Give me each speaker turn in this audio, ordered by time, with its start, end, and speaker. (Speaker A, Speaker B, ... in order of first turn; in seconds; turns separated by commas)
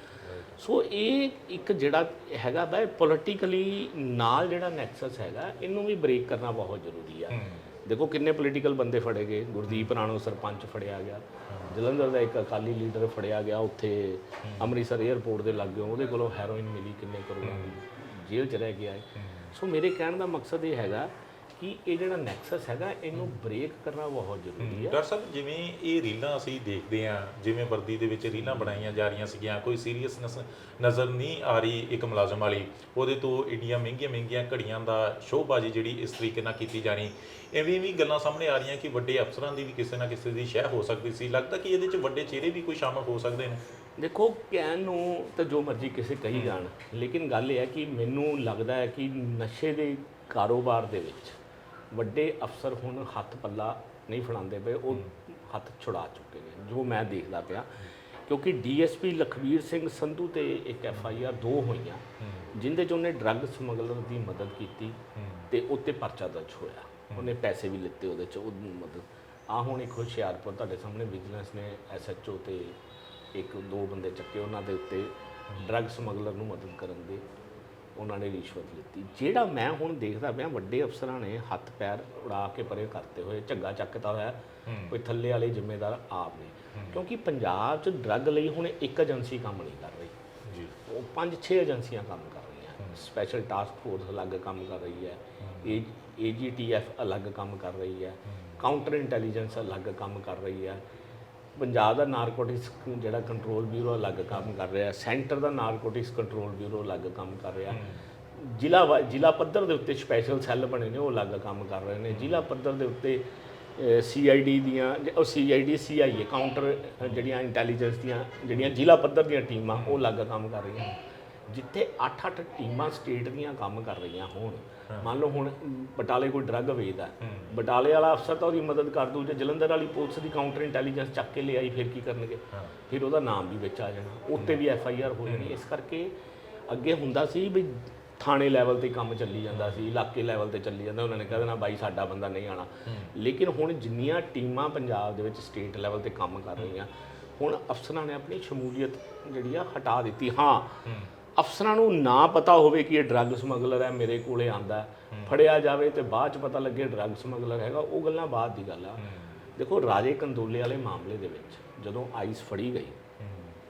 Speaker A: 0.2-0.6, Speaker B: 0.6-25.0, Speaker A: 7.3-7.7, Speaker A: 11.5-11.7, Speaker A: 14.4-14.7, Speaker A: 17.4-17.8, Speaker A: 19.2-19.5, Speaker A: 24.6-43.6, Speaker B: 44.0-51.3, Speaker B: 51.9-62.0, Speaker A: 62.2-62.5, Speaker B: 62.5-65.0, Speaker A: 65.2-65.5, Speaker B: 65.5-72.8, Speaker B: 73.3-77.2, Speaker B: 78.0-90.1, Speaker A: 84.7-85.0, Speaker A: 86.8-87.0, Speaker A: 90.5-90.8, Speaker B: 90.9-100.8, Speaker A: 92.8-93.0, Speaker A: 95.4-95.8, Speaker A: 98.3-98.6, Speaker B: 101.6-107.8, Speaker A: 107.7-108.0, Speaker B: 108.3-113.2, Speaker A: 112.1-112.4, Speaker B: 113.8-136.1, Speaker A: 119.7-120.0, Speaker A: 127.2-127.5, Speaker A: 132.5-132.8, Speaker A: 135.2-135.6, Speaker B: 136.7-150.8, Speaker A: 139.5-139.9, Speaker A: 142.9-143.1, Speaker A: 150.8-151.1, Speaker B: 151.4-159.0, Speaker A: 155.1-155.4, Speaker A: 159.0-159.4, Speaker B: 159.6-163.0, Speaker A: 163.2-163.6